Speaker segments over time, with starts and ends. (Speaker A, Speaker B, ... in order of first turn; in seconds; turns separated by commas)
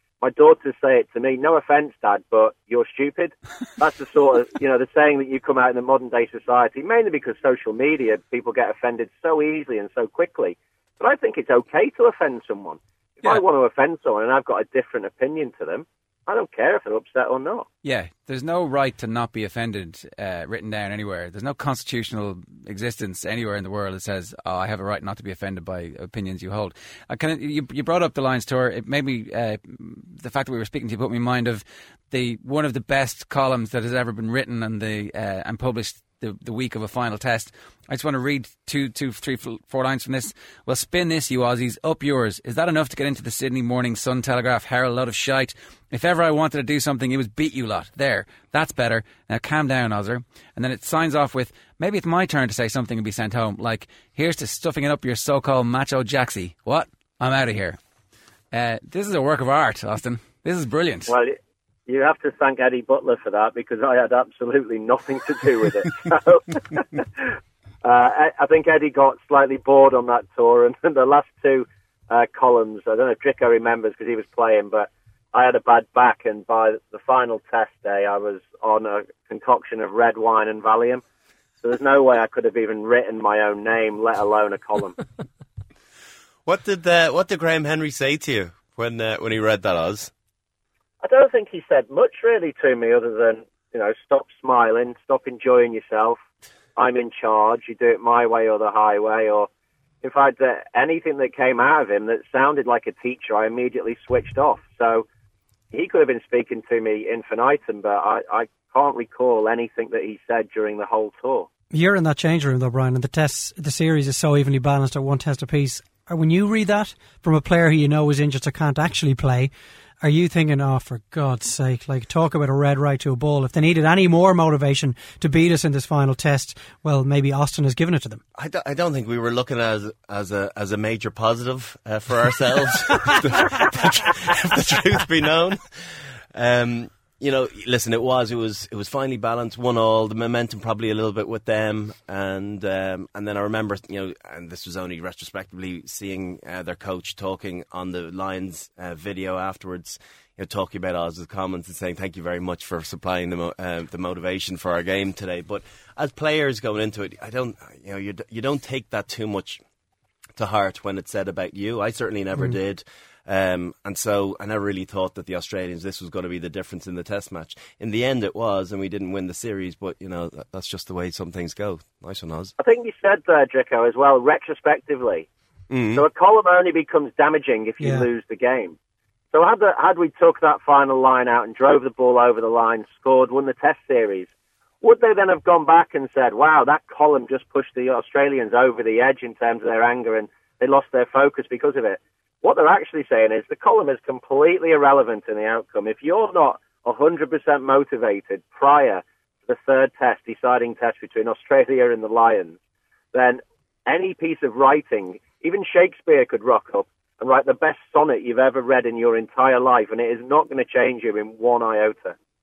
Speaker A: 0.2-17.6, Speaker B: 17.8-57.8, Speaker B: 58.5-61.1, Speaker A: 61.1-81.0, Speaker A: 81.6-85.0, Speaker C: 86.5-90.1, Speaker A: 91.0-96.2, Speaker A: 96.8-99.5, Speaker A: 100.0-105.0, Speaker A: 105.7-111.5, Speaker D: 111.7-128.2, Speaker C: 128.3-159.6, Speaker C: 160.3-172.5, Speaker A: 172.6-175.3, Speaker C: 175.7-176.0, Speaker A: 175.9-178.8, Speaker D: 177.8-178.1, Speaker A: 179.3-184.3, Speaker A: 184.8-202.6, Speaker A: 203.1-212.2